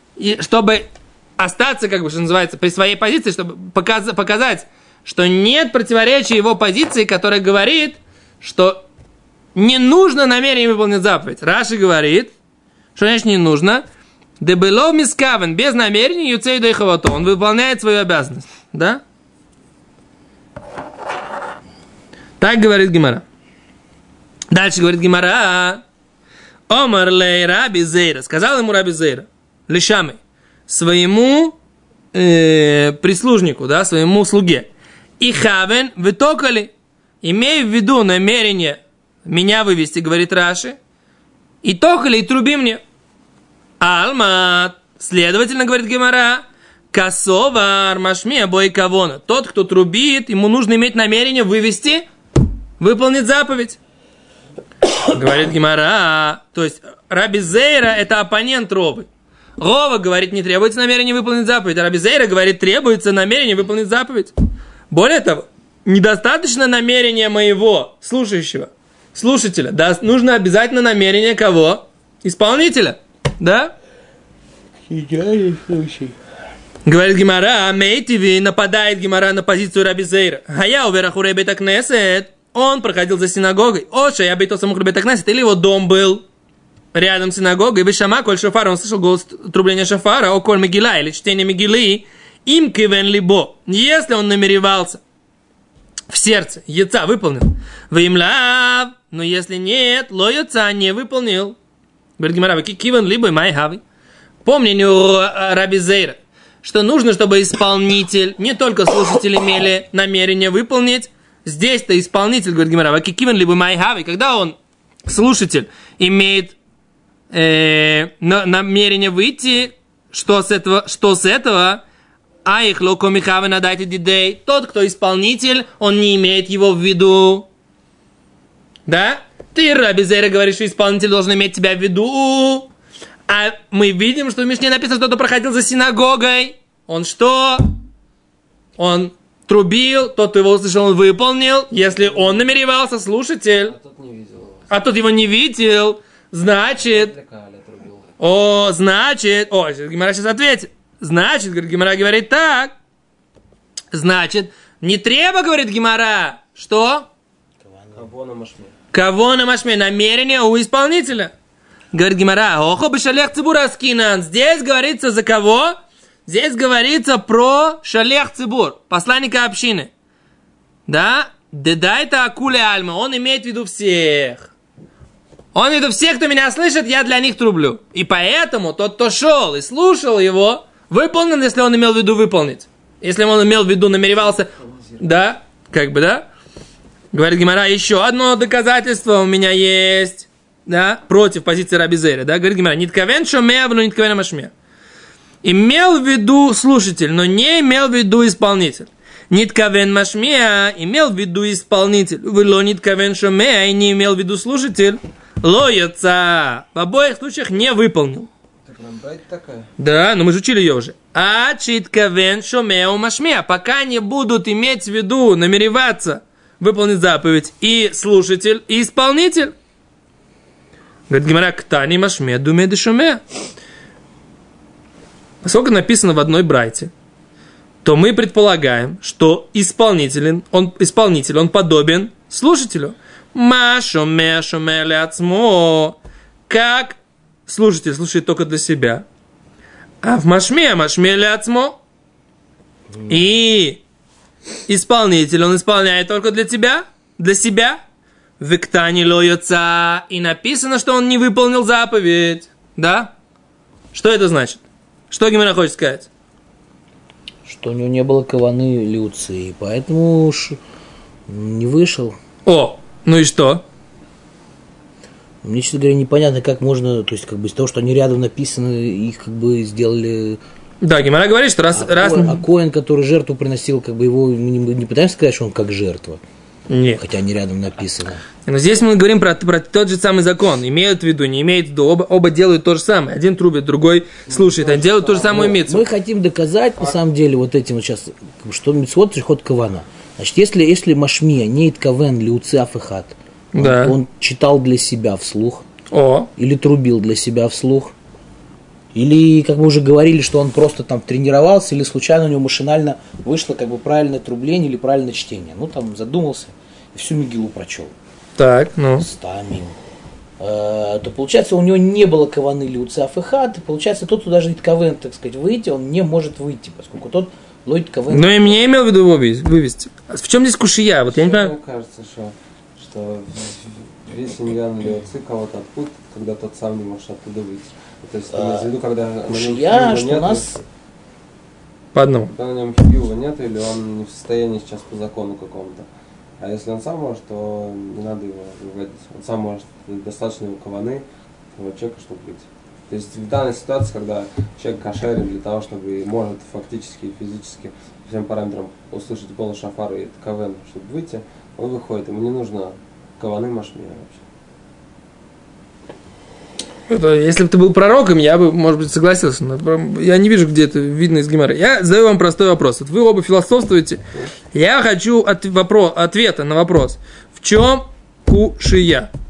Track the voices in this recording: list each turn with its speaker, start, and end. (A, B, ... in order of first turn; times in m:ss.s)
0:00.2-0:08.8 A
0:09.5-0:12.3 A
0:13.0-0:13.8 A
0:14.4-0:19.0 A
0:22.4-0:23.2 A
0:24.5-0:25.8 A
0:26.7-0:31.5 A
0:32.1-0:34.7 A
0:35.2-0:36.7 A
0:37.2-0:40.8 A
0:41.6-0:42.8 A
0:43.8-0:52.0 A
0:52.8-0:53.8 A
0:55.0-1:04.3 A
1:04.9-1:13.7 A
1:14.9-1:16.2 B
1:16.8-1:26.2 A
1:26.9-1:35.0 A
1:36.1-1:41.6 A
1:42.2-1:43.8 A
1:44.4-1:56.6 A
1:57.3-2:01.8 A
2:02.4-2:07.5 A
2:08.8-2:12.7 A
2:13.3-2:17.7 A
2:18.8-2:23.7 A
2:22.0-2:22.4 C
2:23.6-2:24.7 C
2:24.7-2:27.1 A
2:26.8-2:28.1 C
2:28.2-2:32.7 A
2:33.9-2:37.1 A
2:37.6-2:38.0 B
2:37.9-2:38.7 C
2:38.9-2:41.3 A
2:41.9-2:49.9 A
2:50.9-2:54.5 A
2:55.5-3:06.2 A
3:07.1-3:14.5 A
3:15.4-3:28.3 A
3:28.6-3:29.7 C
3:29.8-3:39.5 A
3:41.1-3:43.2 A
3:45.4-3:46.9 A
3:47.8-3:59.0 A
4:00.0-4:01.8 A
4:03.0-4:03.8 A
4:04.7-4:07.8 A
4:08.4-4:13.1 A
4:13.9-4:16.1 A
4:17.4-4:20.6 B
4:21.3-4:22.2 B
4:22.4-4:23.6 A
4:25.4-4:30.4 B
4:30.8-4:32.4 A
4:31.7-4:36.2 B
4:36.7-4:37.0 A
4:37.0-4:38.2 B
4:38.4-4:45.9 A
4:44.3-4:45.6 C
4:45.3-4:55.7 B
4:53.5-4:53.9 A
4:55.9-4:56.3 A
4:56.4-4:57.9 B
4:58.9-5:07.9 B
5:08.4-5:09.0 A
5:09.0-5:09.8 B
5:10.4-5:18.6 B
5:18.1-5:21.5 A
5:21.1-5:30.6 C
5:28.3-5:28.7 B
5:29.3-5:30.6 B
5:31.9-5:32.3 A
5:32.3-5:35.9 C
5:36.4-5:54.2 C
5:56.9-6:04.0 A
6:04.5-6:09.1 A